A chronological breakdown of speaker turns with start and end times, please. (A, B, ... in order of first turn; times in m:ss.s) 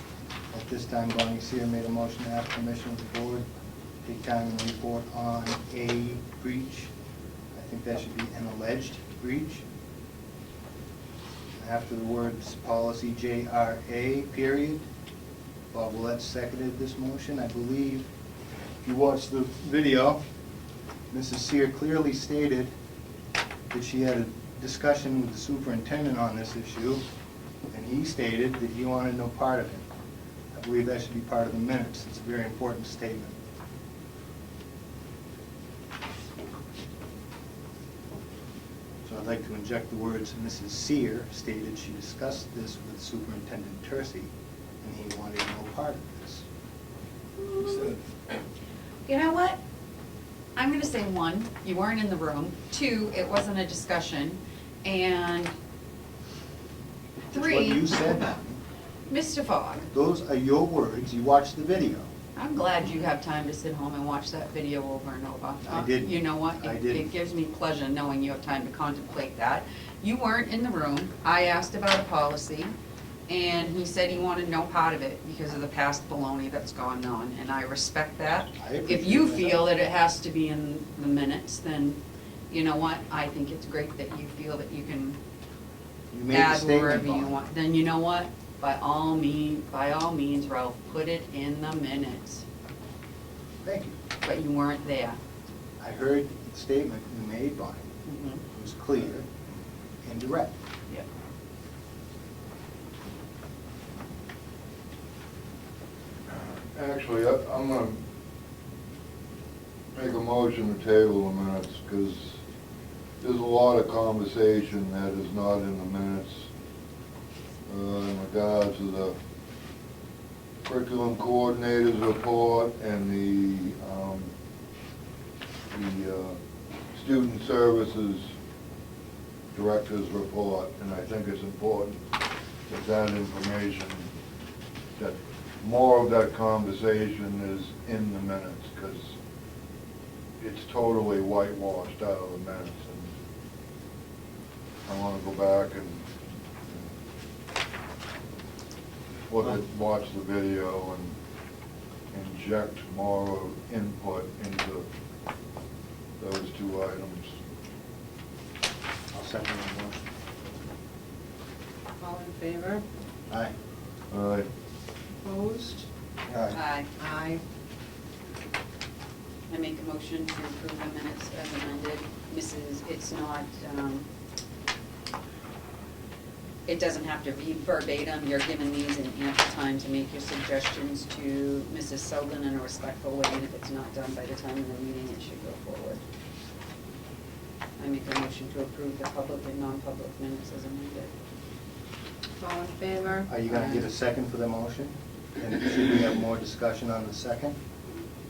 0:00.5-0:03.5 A
0:04.0-0:06.9 A
0:07.5-0:09.6 A
0:11.6-0:14.8 A
0:15.7-0:18.1 A
0:18.8-0:20.2 A
0:21.1-0:22.7 A
0:23.7-0:27.0 A
0:27.7-0:29.9 A
0:30.5-0:33.4 A
0:39.0-0:44.3 A
0:44.8-0:46.4 A
0:47.4-0:48.0 B
0:49.1-0:49.6 B
0:50.6-0:55.6 B
0:57.3-0:58.6 A
0:57.3-0:58.2 B
0:59.1-0:59.9 B
0:59.9-1:02.1 A
1:02.4-1:12.8 B
1:05.6-1:07.1 A
1:13.3-1:25.2 B
1:18.6-1:19.7 A
1:26.1-1:27.5 A
1:26.3-1:32.4 B
1:33.6-1:34.0 A
1:34.2-1:35.2 B
1:35.8-1:37.9 A
1:38.0-1:38.4 B
1:38.5-1:39.3 A
1:40.0-1:40.6 A
1:46.3-1:48.0 C
1:49.9-1:52.4 C
1:53.2-1:56.5 C
1:57.7-1:59.2 C
2:00.6-2:04.3 C
2:05.7-2:06.4 C
2:06.9-2:08.3 C
2:09.5-2:12.0 C
2:12.7-2:14.1 C
2:15.0-2:19.1 C
2:20.4-2:23.1 C
2:24.9-2:26.0 C
2:29.3-2:31.2 C
2:32.1-2:34.9 C
2:36.2-2:37.4 C
2:39.1-2:40.1 A
2:42.0-2:42.8 D
2:43.3-2:43.5 A
2:44.1-2:44.5 C
2:45.2-2:45.9 D
2:46.3-2:46.6 A
2:46.5-2:46.9 B
2:47.0-2:47.4 D
2:49.5-2:54.1 B
2:56.7-3:06.0 B
3:07.8-3:11.1 B
3:12.4-3:13.3 D
3:13.3-3:17.6 A
3:13.5-3:13.8 B